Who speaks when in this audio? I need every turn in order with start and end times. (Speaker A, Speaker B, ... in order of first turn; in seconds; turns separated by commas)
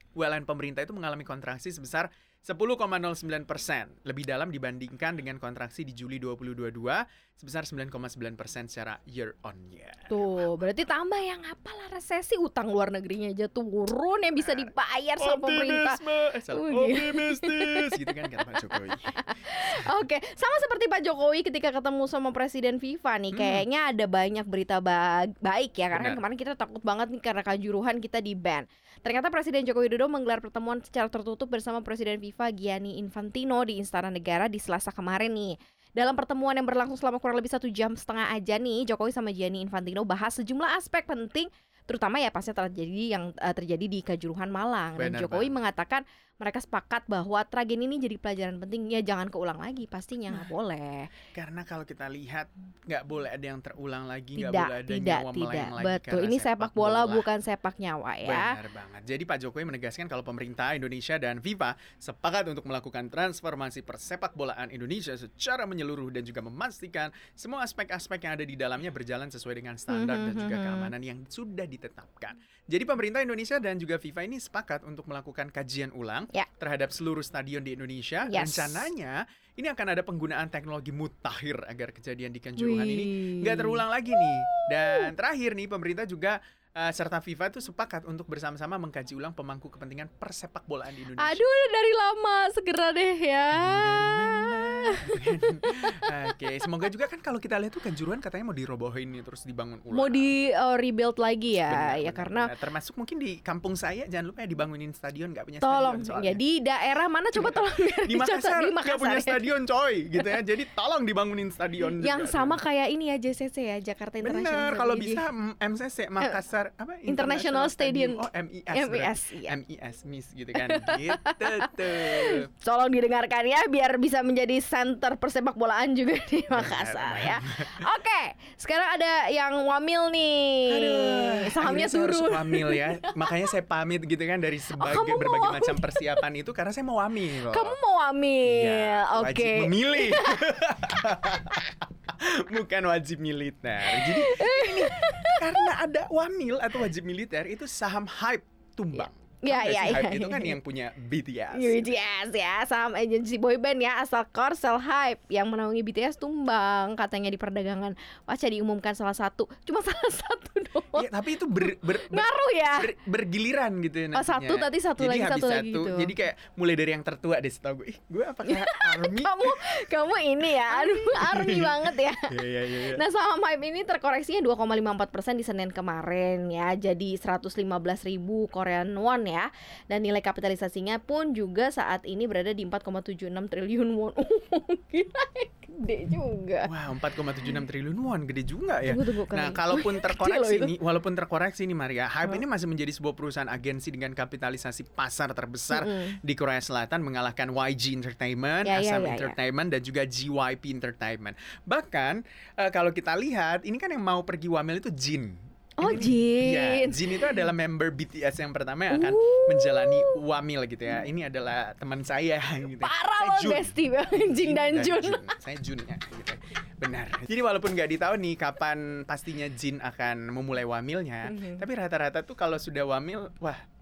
Speaker A: 0.2-10.3, Speaker B: 10.1-51.1, Speaker A: 14.4-19.9, Speaker A: 23.3-23.6, Speaker A: 25.9-26.2, Speaker A: 45.0-45.6, Speaker A: 51.3-57.3, Speaker B: 54.4-58.6, Speaker A: 58.2-91.4, Speaker B: 69.9-70.9, Speaker B: 78.3-78.9, Speaker B: 82.6-85.1, Speaker B: 91.2-95.7, Speaker A: 93.5-100.3, Speaker B: 99.9-102.5, Speaker A: 101.6-106.4, Speaker B: 105.6-109.5, Speaker A: 107.3-112.6, Speaker B: 112.0-115.3, Speaker A: 114.2-122.5, Speaker B: 117.1-119.6, Speaker B: 120.5-133.5, Speaker A: 126.5-127.8, Speaker A: 130.7-137.8, Speaker B: 134.7-136.2, Speaker B: 137.4-140.6, Speaker A: 138.4-152.0, Speaker B: 143.9-145.7, Speaker B: 148.9-150.6, Speaker B: 151.5-161.1, Speaker A: 160.9-169.7, Speaker B: 161.6-162.9, Speaker B: 164.1-166.1, Speaker B: 168.4-186.7, Speaker A: 170.4-173.0, Speaker A: 186.6-223.6, Speaker B: 188.9-190.7, Speaker B: 195.7-196.2, Speaker B: 198.6-199.4, Speaker B: 205.8-207.4, Speaker B: 208.9-210.2, Speaker B: 212.8-215.2, Speaker B: 221.3-221.6